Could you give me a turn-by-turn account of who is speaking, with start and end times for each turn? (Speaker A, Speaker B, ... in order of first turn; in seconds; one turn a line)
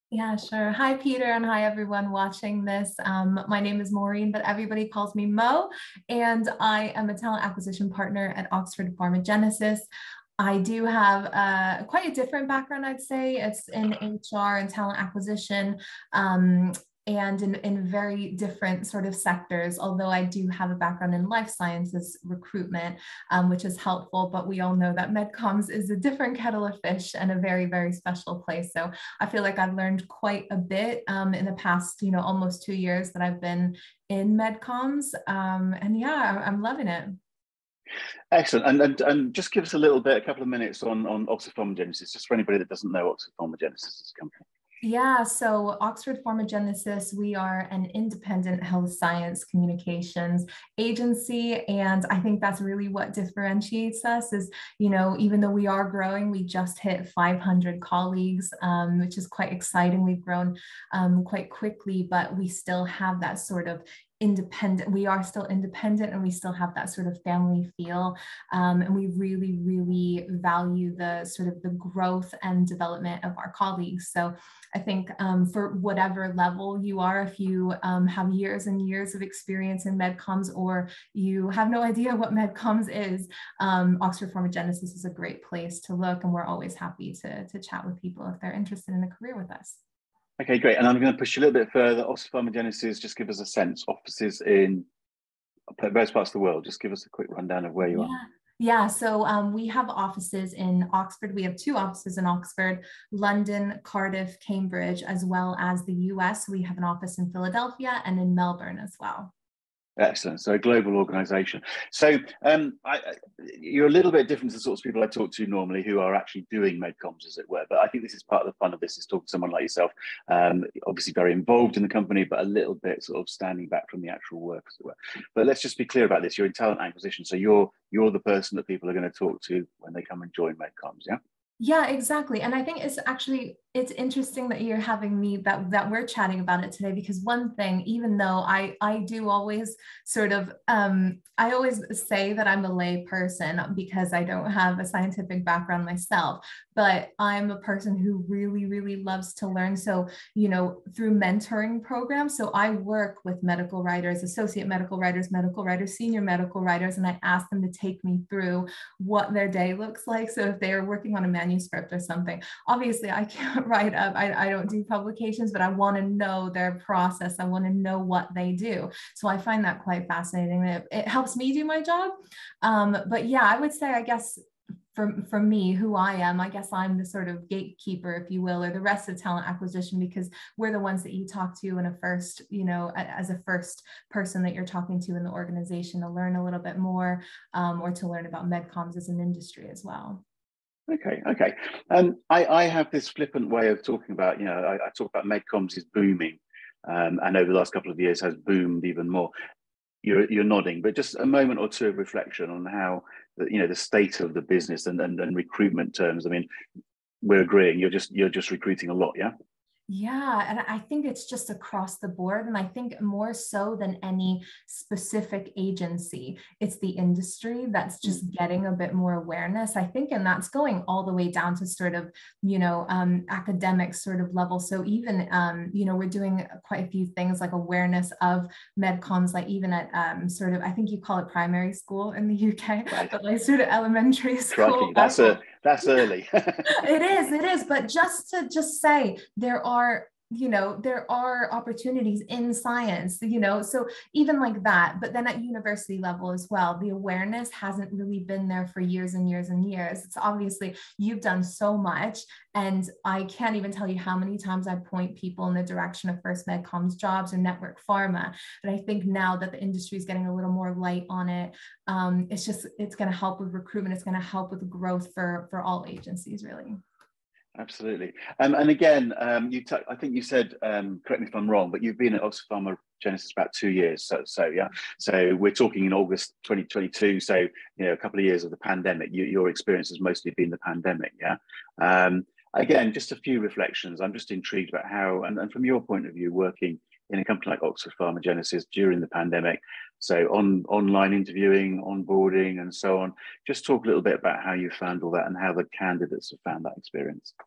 Speaker A: 0.1-9.9
Speaker A: 10.4-37.2
Speaker B: 38.3-44.4
Speaker A: 44.8-89.8
Speaker B: 90.4-94.9
Speaker B: 95.8-98.1
Speaker A: 97.9-109.3
Speaker B: 110.0-131.2
Speaker A: 131.6-174.4
Speaker A: 174.9-190.2
Speaker B: 190.9-199.3
Speaker B: 200.0-206.5
Speaker B: 207.2-209.3
Speaker A: 209.9-235.4
Speaker B: 234.5-236.7
Speaker A: 236.7-266.8
Speaker B: 267.6-297.3